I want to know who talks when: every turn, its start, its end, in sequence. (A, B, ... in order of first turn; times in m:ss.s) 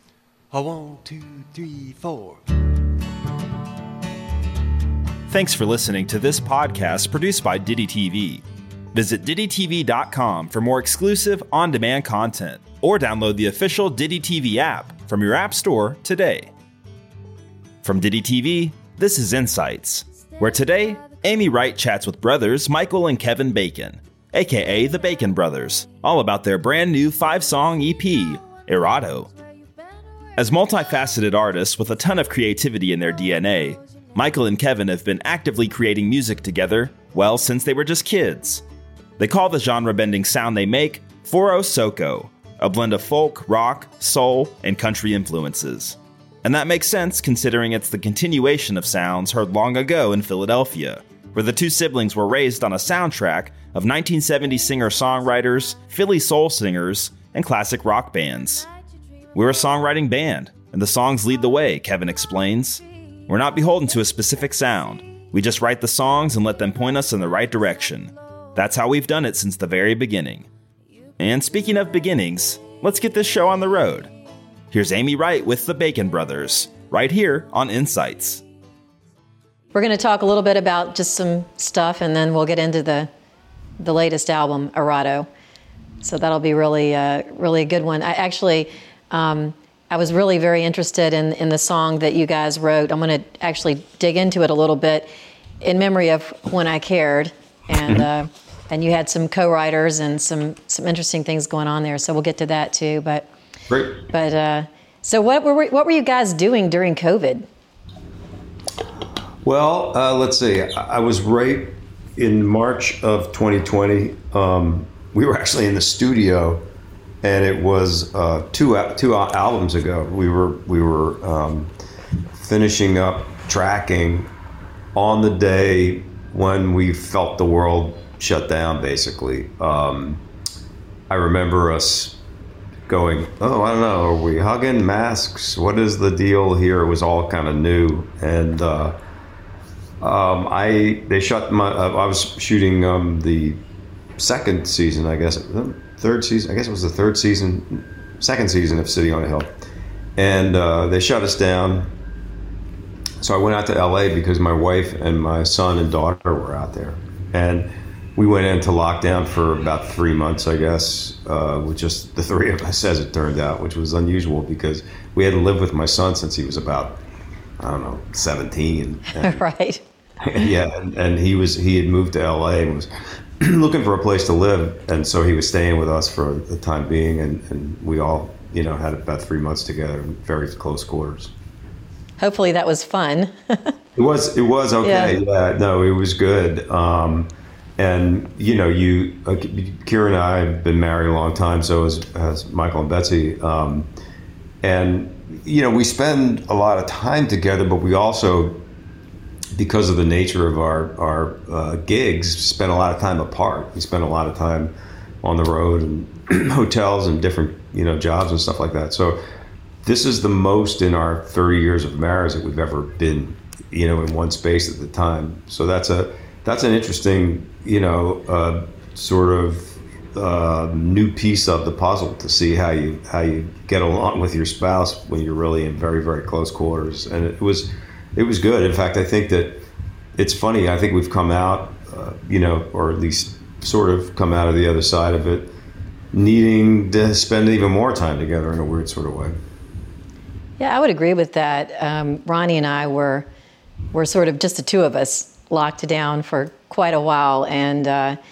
0:00.5-0:02.5 A
0:05.3-0:08.4 B
0:08.9-0:16.5 B
0:17.8-0:29.3 B
0:30.4-0:38.6 B
0:39.2-0:58.7 B
0:59.3-1:10.5 B
1:11.2-1:14.1 B
1:14.7-1:18.4 B
1:19.8-1:23.1 C
1:23.8-1:25.3 C
1:26.0-1:35.1 C
1:35.6-1:43.3 C
1:43.7-1:44.0 D
1:44.1-1:47.5 C
1:49.4-1:56.6 D
1:57.2-2:01.7 D
2:02.4-2:04.3 D
2:05.0-2:10.2 D
2:11.1-2:12.2 D
2:12.9-2:19.0 D
2:20.0-2:23.6 D
2:24.2-2:29.5 D
2:30.2-2:31.9 D
2:33.2-2:47.0 D
2:47.6-2:49.4 D
2:49.2-2:49.8 C
2:50.2-3:01.3 D
3:02.2-3:03.7 C
3:04.0-3:13.9 D
3:04.8-3:05.2 C
3:14.6-3:18.6 D
3:19.6-3:29.2 D
3:29.8-3:55.5 D
3:56.1-3:59.4 D
4:00.6-4:03.3 C
4:03.9-4:08.2 C